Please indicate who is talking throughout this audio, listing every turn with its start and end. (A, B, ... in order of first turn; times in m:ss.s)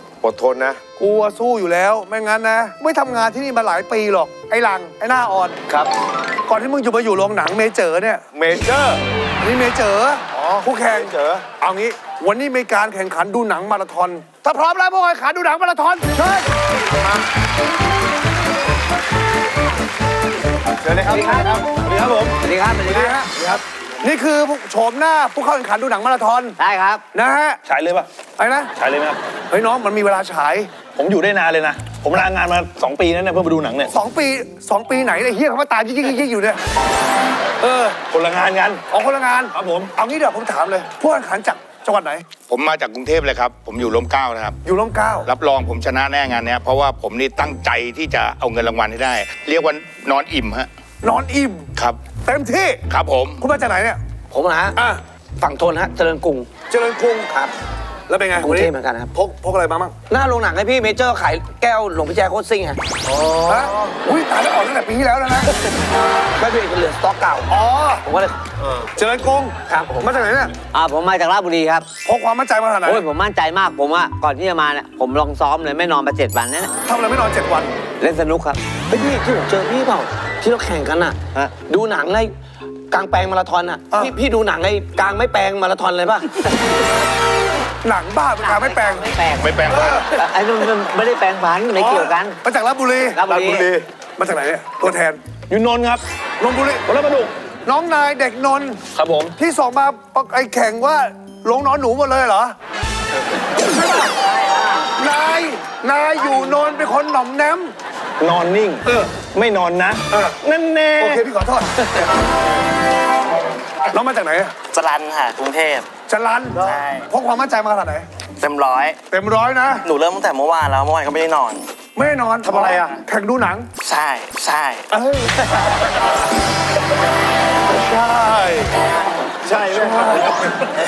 0:00.2-0:00.8 A
0:01.0-0:05.6 B
0:06.5-0:08.2 B
0:08.3-0:09.0 A
0:09.4-0:16.5 B
0:10.3-0:11.5 A
0:16.9-0:17.2 A
0:20.8-0:21.7 A
0:21.8-0:22.4 C
0:22.4-0:23.2 D
0:22.8-0:26.6 B
0:26.6-0:27.0 D
0:27.1-0:27.6 B
0:27.6-0:28.1 C
0:28.4-0:28.7 B
0:28.8-0:29.2 C
0:29.5-0:30.7 B
0:30.9-0:33.9 C
0:33.9-0:36.6 B
0:37.6-0:38.8 C
0:38.9-0:42.3 B
0:42.4-0:44.6 E
0:44.6-0:45.3 B
0:45.2-0:50.7 E
0:51.0-0:52.8 B
0:51.8-0:52.1 E
0:52.9-0:53.4 E
0:53.4-0:54.0 B
0:54.3-0:54.8 F
0:54.8-0:55.0 B
0:55.4-0:56.5 F
0:56.7-0:57.3 B
0:57.3-0:57.5 F
0:58.1-1:00.0 B
0:58.4-0:59.1 F
1:00.1-1:02.8 F
1:03.4-1:05.5 B
1:06.4-1:08.4 F
1:07.5-1:08.0 B
1:08.9-1:10.5 B
1:09.7-1:10.2 F
1:10.7-1:11.9 D
1:12.0-1:13.0 B
1:12.8-1:16.7 D
1:16.8-1:17.7 B
1:18.0-1:18.6 D
1:18.9-1:22.3 F
1:22.9-1:26.4 F
1:27.8-1:29.1 B
1:28.4-1:29.5 D
1:29.3-1:30.1 E
1:29.7-1:30.0 B
1:30.1-1:32.4 D
1:31.8-1:33.2 B
1:33.1-1:33.7 D
1:33.3-1:33.8 A
1:34.2-1:35.2 B
1:35.5-1:36.0 C
1:36.4-1:36.8 B
1:36.8-1:37.3 C
1:37.6-1:38.8 B
1:38.9-1:39.3 C
1:39.4-1:42.6 B
1:44.2-1:44.7 D
1:45.0-1:47.7 B
1:48.2-1:51.2 C
1:48.8-1:49.1 B
1:50.1-1:50.4 B
1:51.0-1:52.0 B
1:53.9-1:54.5 B
1:54.7-1:55.9 G
1:56.1-1:58.1 B
1:56.6-1:57.0 G
1:58.4-1:59.0 G
1:59.1-1:59.9 B
1:59.8-2:01.7 G
2:01.9-2:03.7 B
2:02.4-2:03.0 A
2:03.8-2:04.8 G
2:04.9-2:05.4 B
2:07.6-2:08.7 B
2:09.4-2:10.4 A
2:09.7-2:10.4 B